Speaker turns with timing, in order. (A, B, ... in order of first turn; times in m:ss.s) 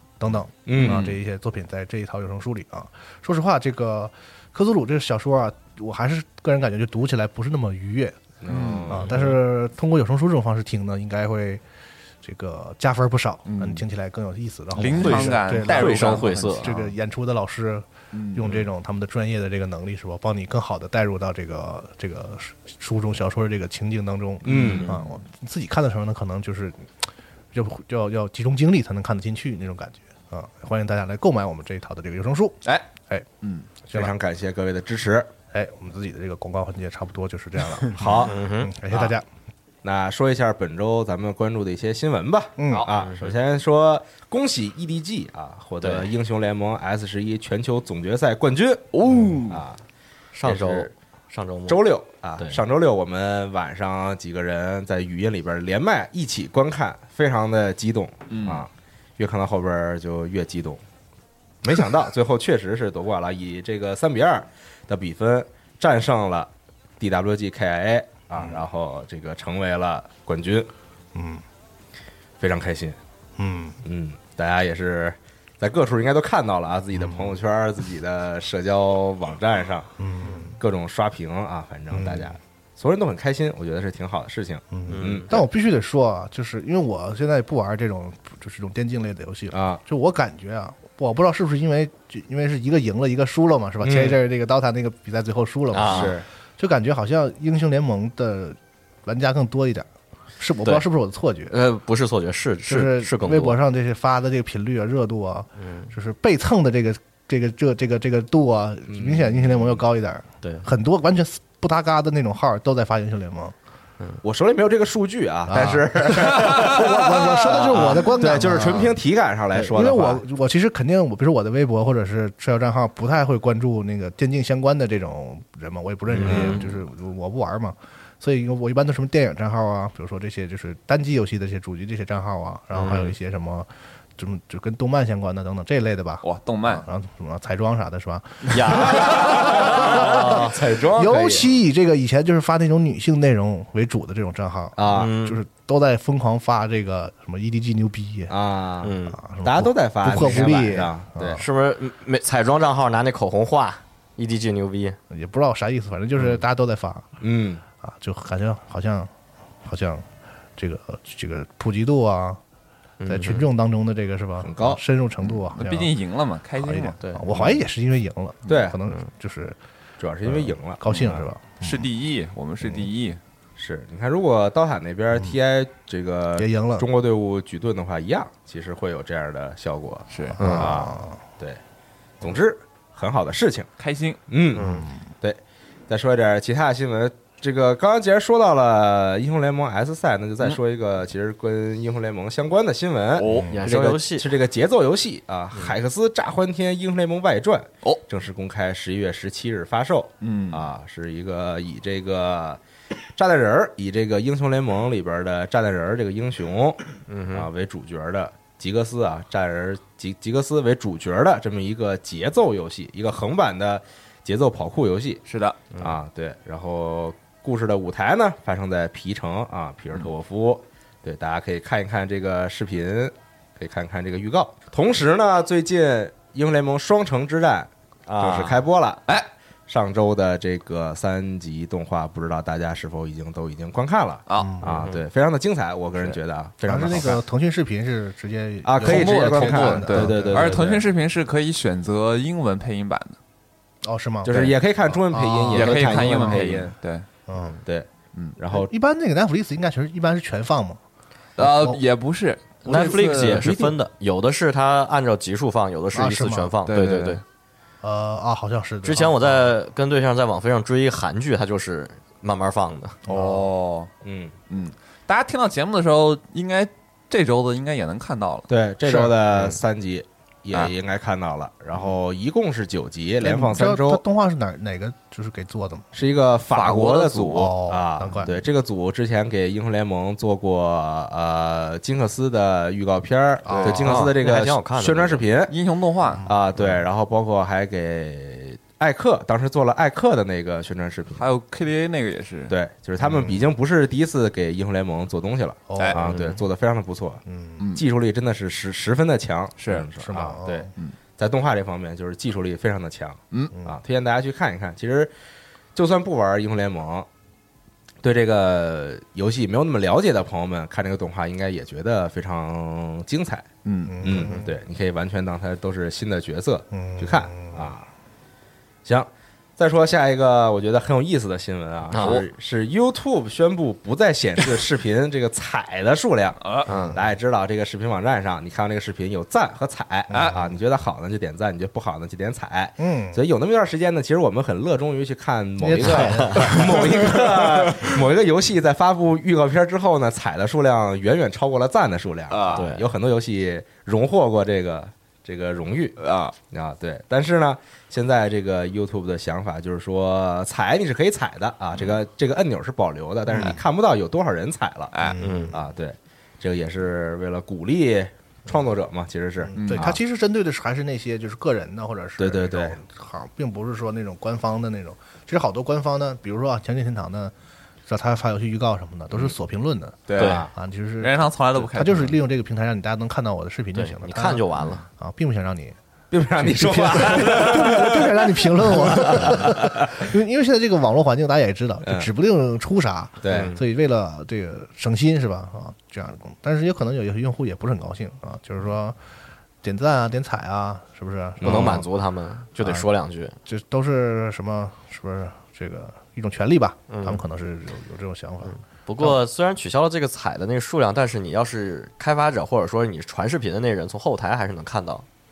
0:00.2-0:08.2 A
0:00.6-0:01.1 B
0:00.8-0:01.2 C
0:08.4-0:09.3 B
0:08.5-0:09.4 C
0:08.9-0:11.6 A
0:12.2-0:26.9 A
0:13.5-0:13.8 C
0:14.7-0:16.7 C
0:15.0-0:16.7 D
0:18.1-0:18.5 C
0:24.4-0:24.9 B
0:24.5-0:24.9 D
0:27.5-0:33.2 A
0:33.4-0:33.7 C
0:33.9-0:35.3 B
0:35.5-0:39.2 A
0:38.0-0:38.3 B
0:38.2-0:38.7 D
0:39.8-0:48.9 B
0:42.6-0:42.9 A
0:43.0-0:43.3 D
0:45.8-0:46.1 D
0:48.9-0:49.6 C
0:49.5-0:49.8 B
0:50.3-0:51.8 D
0:50.4-0:50.9 B
0:51.7-1:00.8 B
0:58.3-0:58.6 C
1:01.6-1:10.7 B
1:11.1-1:11.4 A
1:12.4-1:13.0 B
1:13.4-1:13.8 A
1:13.8-1:19.9 B
1:17.0-1:17.4 A
1:20.0-1:20.6 A
1:20.6-1:25.3 B
1:21.9-1:22.3 A
1:24.7-1:39.9 A
1:24.9-1:25.3 D
1:29.5-1:29.8 B
1:33.8-1:34.2 B
1:35.7-1:36.1 D
1:35.8-1:36.2 B
1:40.4-1:41.5 A
1:41.5-1:43.6 D
1:42.7-1:53.5 A
1:45.6-1:45.9 D
1:48.9-1:49.8 B
1:54.2-2:00.2 B
1:55.5-1:59.0 A
1:59.5-2:28.3 A
2:06.2-2:06.6 B
2:06.3-2:06.6 C
2:12.8-2:13.1 D
2:16.2-2:16.8 C
2:18.5-2:21.4 D
2:20.6-2:21.4 B
2:24.8-2:25.1 B
2:24.9-2:25.4 D
2:28.3-2:31.4 B
2:28.8-2:29.2 D
2:29.1-2:31.4 A
2:31.4-2:35.0 D
2:35.1-2:37.1 A
2:37.2-2:37.6 B
2:37.8-2:39.1 A
2:39.6-2:42.4 A
2:43.0-2:43.5 D
2:43.1-2:45.9 A
2:44.4-2:44.8 B
2:45.5-2:47.0 C
2:46.6-2:49.6 A
2:47.3-2:47.6 B
2:48.5-2:48.8 B
2:50.0-2:51.3 B
2:50.2-2:51.9 A
2:51.6-2:53.2 C
2:53.6-3:01.6 B
2:56.4-2:56.8 A
3:00.1-3:00.4 C
3:00.4-3:01.2 A
3:00.4-3:00.7 D
3:02.2-3:03.7 B
3:03.8-3:04.2 C
3:04.3-3:22.6 B
3:04.5-3:04.8 D
3:13.2-3:13.5 C
3:13.5-3:14.3 D
3:20.2-3:20.7 C
3:23.2-3:26.8 B
3:27.1-3:27.5 D
3:27.3-3:35.2 B
3:35.3-3:35.6 C
3:35.8-3:49.0 B
3:48.1-3:48.5 D
3:48.2-3:48.5 C
3:49.7-3:57.2 B
3:54.3-3:54.6 C
3:54.4-3:54.7 A
3:54.6-3:55.0 D
3:56.6-4:00.7 A
3:58.6-4:00.8 B
3:58.8-4:03.2 C
4:03.8-4:06.6 A
4:04.2-4:06.7 B
4:05.5-4:07.0 C
4:07.3-4:07.6 A
4:07.6-4:08.7 B
4:08.5-4:10.8 A
4:11.4-4:13.7 C
4:11.4-4:11.8 A
4:12.6-4:17.2 D
4:15.9-4:16.5 A
4:16.6-4:17.2 C
4:17.8-4:19.5 A
4:18.8-4:23.0 D
4:23.1-4:23.5 A
4:23.1-4:23.9 C
4:24.0-4:24.3 B
4:24.5-4:28.5 C
4:28.5-4:34.0 B
4:28.8-4:29.1 A
4:33.2-4:35.9 A
4:35.9-4:45.6 B
4:36.5-4:37.5 C
4:37.3-4:38.3 A
4:43.4-4:43.9 A
4:43.5-4:44.1 C
4:43.8-4:45.2 D
4:45.5-4:46.3 C
4:46.1-4:46.4 A
4:46.2-4:51.2 B
4:51.1-4:52.5 C
4:52.5-4:57.2 B
4:53.0-4:53.4 A
4:55.7-4:56.1 A
4:57.3-4:57.6 A
4:57.6-4:57.8 C
4:57.7-5:05.1 B
4:59.6-4:59.9 C
5:00.0-5:00.7 A
5:05.7-5:07.1 B
5:08.0-5:13.4 B
5:13.6-5:14.0 C
5:13.8-5:14.5 A
5:14.0-5:17.9 B
5:16.7-5:17.7 A
5:18.8-5:46.0 B
5:21.9-5:22.2 D
5:22.0-5:22.2 C
5:26.6-5:27.0 D
5:30.1-5:30.5 A
5:32.8-5:33.2 A
5:35.6-5:37.2 A
5:35.8-5:36.4 D
5:37.3-5:37.8 C
5:42.3-5:42.7 C
5:42.5-5:42.8 D
5:46.0-5:46.3 C
5:46.5-6:00.0 B
5:53.3-5:53.6 A
5:54.9-5:55.2 C
5:55.0-5:55.5 A
5:55.2-5:55.6 D
5:59.4-6:07.3 A
5:59.6-5:59.9 C
6:02.2-6:02.8 B
6:07.8-6:14.4 A
6:10.1-6:10.5 C
6:10.1-6:10.5 B
6:10.2-6:10.4 D
6:11.0-6:12.2 C
6:13.7-6:14.8 D
6:15.0-6:15.8 A
6:16.1-6:20.0 B
6:16.4-6:29.0 A
6:21.8-6:22.1 B
6:23.2-6:23.5 B
6:23.3-6:23.6 D
6:29.6-6:31.8 A
6:31.4-6:31.8 B
6:31.4-6:33.4 D
6:32.6-6:32.8 A
6:33.4-6:39.2 A
6:36.9-6:37.2 D
6:38.4-6:45.0 D